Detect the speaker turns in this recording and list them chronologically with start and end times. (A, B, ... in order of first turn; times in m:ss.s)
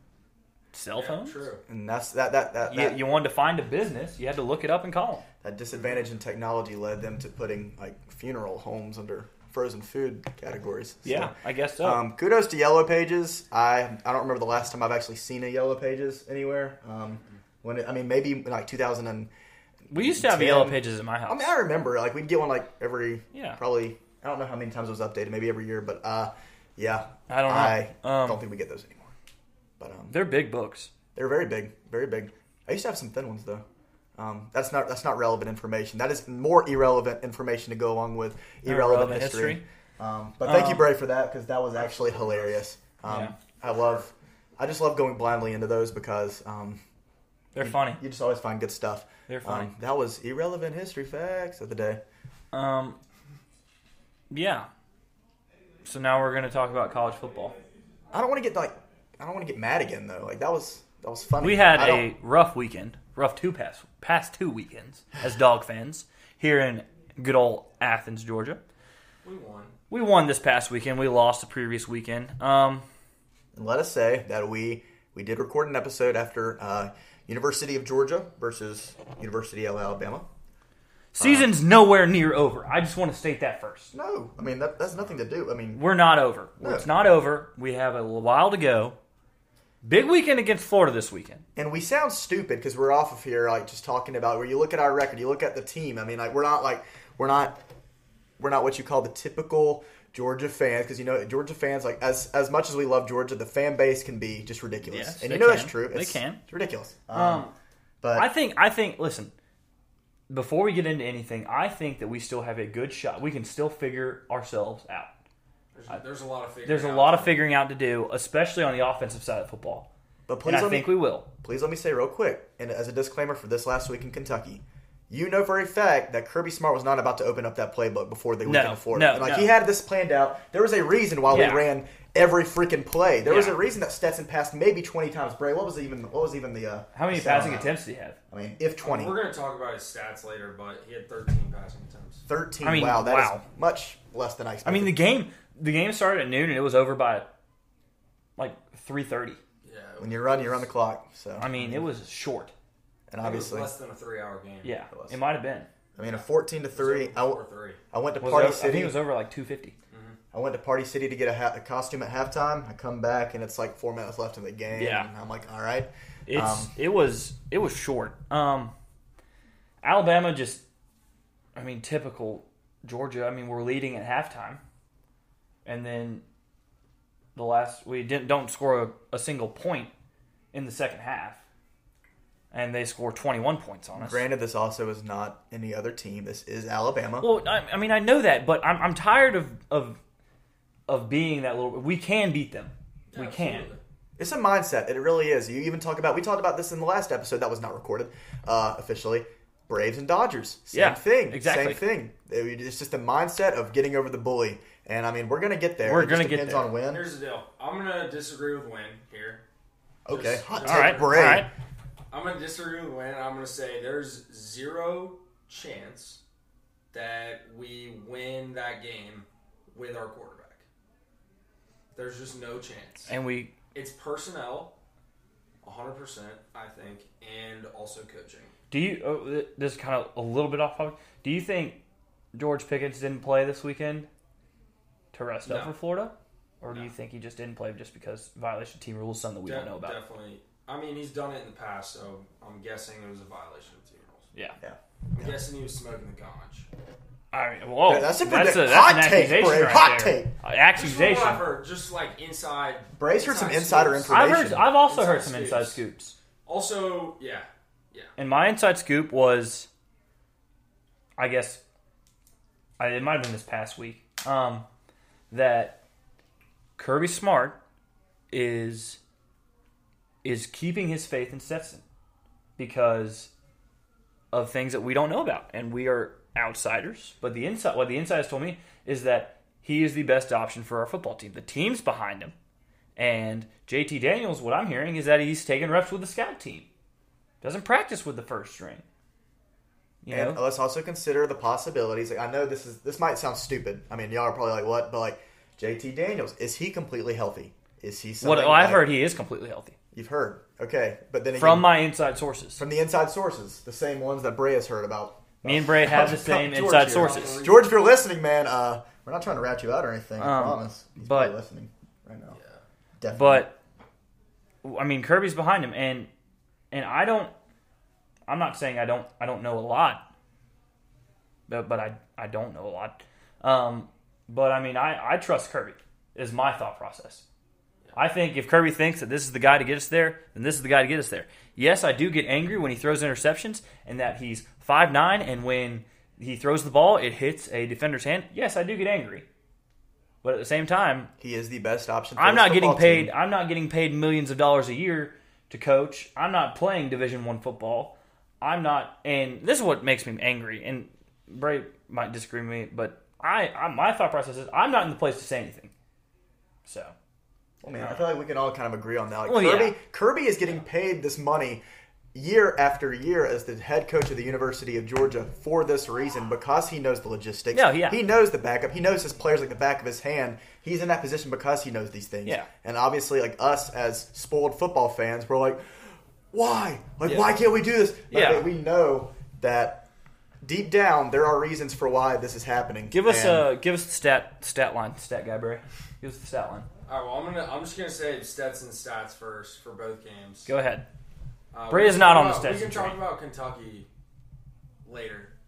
0:00.7-0:01.5 A
0:01.0-0:01.6 B
0:01.7-0:03.0 C
0:02.7-0:05.2 A
0:05.4-0:19.3 C
0:11.0-0:12.0 A
0:19.9-0:29.1 C
0:19.9-0:21.5 A
0:23.3-0:23.6 A
0:27.3-0:28.4 A
0:29.8-0:30.2 C
0:30.1-0:30.9 A
0:31.2-0:33.6 C
0:34.2-0:46.8 C
0:38.7-0:39.6 A
0:40.4-0:40.9 A
0:41.8-0:42.6 B
0:43.1-0:43.4 A
0:43.7-0:44.0 B
0:47.5-0:48.0 A
0:47.6-0:52.0 C
0:49.3-0:49.7 A
0:52.5-0:53.0 A
0:54.3-0:54.7 A
0:55.8-0:57.6 A
0:58.1-1:02.1 C
1:01.4-1:08.6 A
1:09.2-1:09.8 B
1:09.9-1:12.8 A
1:13.6-1:20.2 C
1:21.1-1:23.9 A
1:21.2-1:21.5 C
1:23.9-1:25.9 C
1:25.8-1:29.0 A
1:26.6-1:26.9 C
1:29.8-1:31.4 A
1:31.6-1:37.6 C
1:38.4-1:47.5 C
1:44.9-1:46.4 A
1:47.1-1:47.5 A
1:48.0-1:48.3 C
1:48.1-1:49.3 A
1:50.3-1:55.1 A
1:55.7-1:57.4 B
1:56.6-1:59.9 A
2:00.3-2:17.8 C
2:00.4-2:01.3 A
2:08.4-2:09.5 A
2:11.3-2:11.7 A
2:13.2-2:13.6 A
2:16.9-2:18.2 A
2:18.3-2:19.2 C
2:18.8-2:22.2 B
2:22.3-2:25.0 C
2:22.6-2:23.4 A
2:24.6-2:27.3 A
2:28.4-2:29.4 A
2:29.6-2:30.7 B
2:30.0-2:31.9 C
2:31.4-2:32.5 A
2:33.1-2:33.7 C
2:33.2-2:34.7 B
2:34.6-2:35.7 A
2:34.9-2:35.2 C
2:36.0-2:37.4 C
2:36.0-2:37.8 B
2:37.9-2:39.0 C
2:38.2-2:39.8 A
2:39.9-2:40.2 B
2:40.3-2:46.7 C
2:44.7-2:45.1 A
2:46.3-2:48.7 A
2:49.8-2:50.6 A
2:51.6-2:54.6 A
2:55.6-2:56.2 A
2:57.4-2:59.9 A
3:00.5-3:01.4 A
3:02.5-3:04.2 A
3:04.0-3:07.3 C
3:07.2-3:10.0 A
3:10.9-3:13.7 A
3:13.1-3:13.8 B
3:14.2-3:27.1 C
3:20.7-3:21.8 A
3:25.8-3:26.7 A
3:26.9-3:29.4 B
3:30.0-3:31.5 C
3:30.1-3:31.4 B
3:30.6-3:31.5 A
3:32.1-3:36.2 B
3:36.9-3:40.6 B
3:42.0-3:43.1 B
3:43.1-3:43.5 A
3:43.7-3:44.8 B
3:45.6-3:48.5 B
3:48.7-3:51.8 A
3:52.3-3:54.1 A
3:55.1-4:00.0 A
3:55.4-3:55.8 B
3:59.5-4:04.3 B
4:04.6-4:05.4 C
4:05.1-4:06.7 B
4:07.3-4:11.5 A
4:07.9-4:10.3 C
4:10.8-4:15.8 B
4:13.0-4:14.7 C
4:14.1-4:16.2 A
4:16.4-4:18.1 B
4:18.2-4:19.7 A
4:21.2-4:21.6 A
4:22.8-4:24.7 A
4:25.3-4:25.8 A
4:26.8-4:27.6 A
4:28.3-4:29.0 A
4:30.2-4:31.8 A
4:32.6-4:33.3 A
4:34.3-4:42.3 A
4:43.0-4:46.7 A
4:47.4-4:48.8 A
4:50.0-4:50.4 A
4:50.1-4:58.9 C
4:58.2-4:59.8 A
4:59.9-5:01.8 C
5:01.4-5:02.6 A
5:02.6-5:12.4 C
5:05.4-5:07.4 A
5:06.7-5:07.8 B
5:10.2-5:11.4 A
5:12.3-5:12.6 B
5:13.0-5:13.5 C
5:13.2-5:13.6 A
5:14.6-5:16.1 A
5:16.7-5:17.3 A
5:18.3-5:20.0 A
5:21.5-5:27.2 A
5:28.0-5:39.2 A
5:40.2-5:41.1 A
5:41.2-5:43.1 C
5:42.2-5:55.7 A
5:56.6-5:56.9 A
5:57.6-6:01.6 C
5:57.7-5:58.1 A
5:59.2-5:59.8 A
6:02.1-6:19.9 C
6:07.5-6:08.0 A
6:12.2-6:12.5 A
6:17.0-6:17.4 A
6:18.1-6:18.5 A
6:20.4-6:23.5 C
6:22.9-6:26.7 A
6:26.9-6:30.5 B
6:30.5-6:30.9 A
6:31.5-6:33.9 B
6:31.7-6:33.0 A
6:34.8-6:35.3 B